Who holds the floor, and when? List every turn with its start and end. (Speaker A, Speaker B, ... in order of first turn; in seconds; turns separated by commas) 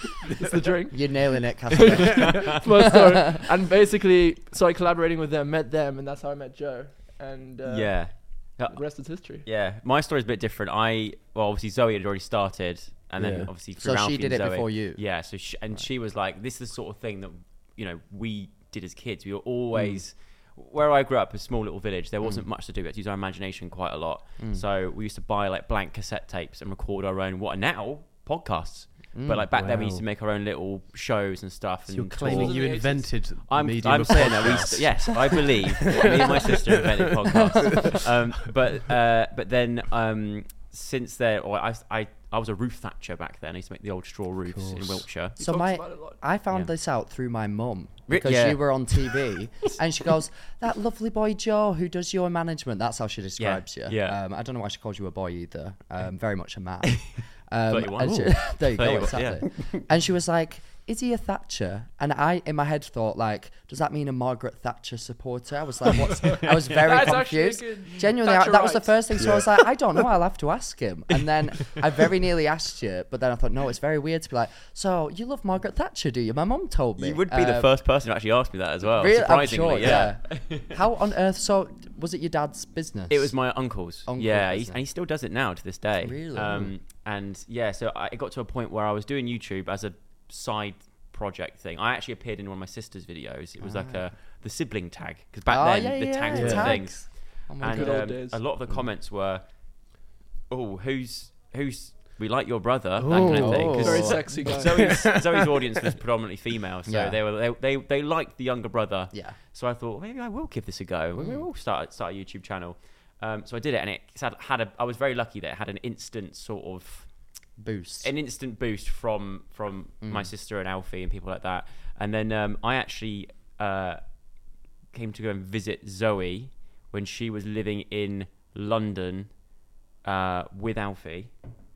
Speaker A: 0.3-9.4, Speaker B: 0.9-2.7, Speaker C: 7.7-32.8, Speaker D: 13.2-13.5, Speaker B: 13.8-15.8, Speaker B: 19.7-20.0, Speaker B: 22.2-22.5, Speaker B: 24.4-24.6, Speaker B: 29.1-29.5, Speaker D: 29.5-30.1, Speaker D: 31.9-38.0, Speaker A: 32.2-33.1, Speaker C: 33.5-45.4, Speaker B: 37.6-37.9, Speaker D: 44.5-45.1, Speaker A: 45.4-46.2, Speaker B: 45.4-77.7, Speaker C: 48.1-49.1, Speaker C: 53.4-54.2, Speaker C: 57.7-59.8, Speaker A: 66.2-69.0, Speaker D: 69.2-69.6, Speaker C: 77.0-80.7, Speaker B: 78.9-84.8, Speaker C: 83.1-117.2, Speaker B: 86.0-86.7, Speaker B: 93.6-94.1, Speaker B: 95.5-98.2, Speaker D: 96.3-96.8, Speaker A: 97.6-98.4, Speaker D: 103.0-105.7, Speaker B: 103.1-104.3, Speaker A: 103.8-104.9, Speaker B: 106.9-107.2, Speaker B: 109.1-109.4, Speaker B: 111.2-111.4, Speaker B: 117.6-118.1, Speaker C: 118.0-124.3, Speaker B: 120.0-120.3, Speaker C: 124.9-131.4